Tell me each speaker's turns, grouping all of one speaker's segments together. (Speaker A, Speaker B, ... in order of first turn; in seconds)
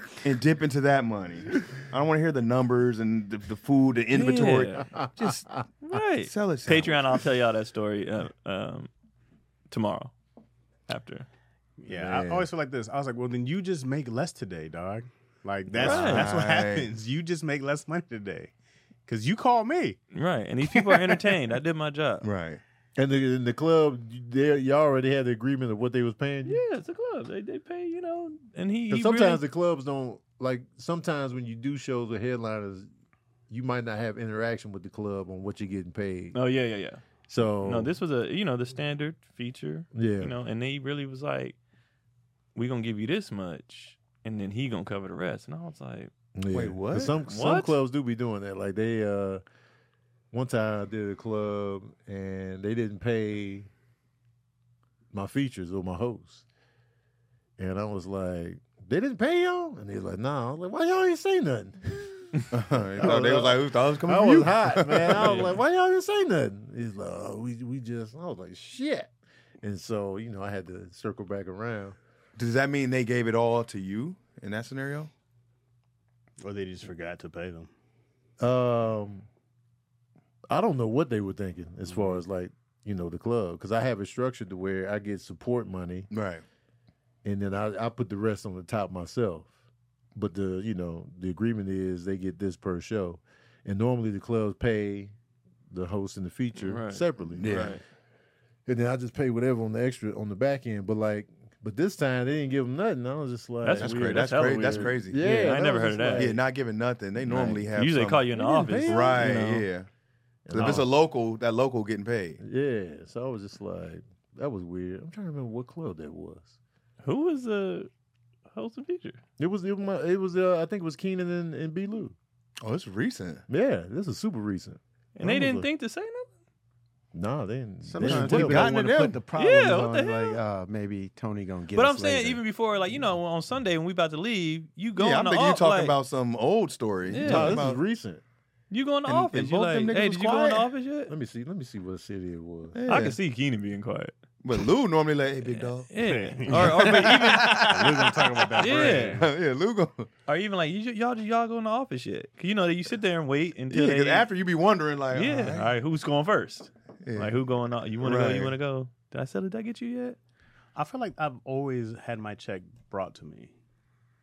Speaker A: 0.2-7.2, 15.8-16.9, 22.2-22.6, 46.5-47.1, 62.5-65.5, 72.4-75.1, 86.1-86.4, 97.4-97.8, 103.7-105.2, 106.1-108.2, 108.8-109.9, 110.5-112.4, 122.6-123.4, 128.0-129.2, 134.9-137.8, 139.1-140.7, 142.7-143.2, 144.4-150.1, 153.7-155.7, 157.0-157.3, 158.0-158.5
Speaker B: 4.1-4.9, 5.8-8.9, 9.7-10.1, 10.9-11.3, 15.7-16.3, 20.1-22.3, 26.4-29.4, 36.3-37.0, 37.6-41.6, 42.5-46.1, 47.2-47.8, 65.2-65.5, 96.6-97.8, 103.6-106.4, 107.7-109.3, 117.0-117.9, 118.5-119.2, 125.2-126.3, 129.4-130.4, 131.7-135.9, 137.1-137.7, 138.7-141.1, 142.9-144.7, 145.4-147.8, 148.6-149.3, 150.3-154.3, 155.1-160.2
Speaker C: 11.8-18.5, 19.1-20.0, 20.7-21.2, 76.4-77.7, 81.9-82.2, 146.0-149.3, 160.7-163.5
Speaker D: 11.9-12.5, 22.9-26.6, 28.9-32.9, 33.5-36.4, 37.3-37.9, 39.9-40.3, 46.4-49.4, 50.3-53.7, 55.1-56.4, 57.6-72.0, 78.4-79.3, 80.5-86.1, 87.2-89.5, 90.1-95.1, 95.7-97.7, 98.7-106.4, 107.2-107.7, 108.3-109.7, 110.5-110.9, 112.4-116.5, 119.4-122.1, 123.5-125.7, 127.1-128.8, 137.2-138.2, 141.1-142.8
Speaker E: 127.8-132.4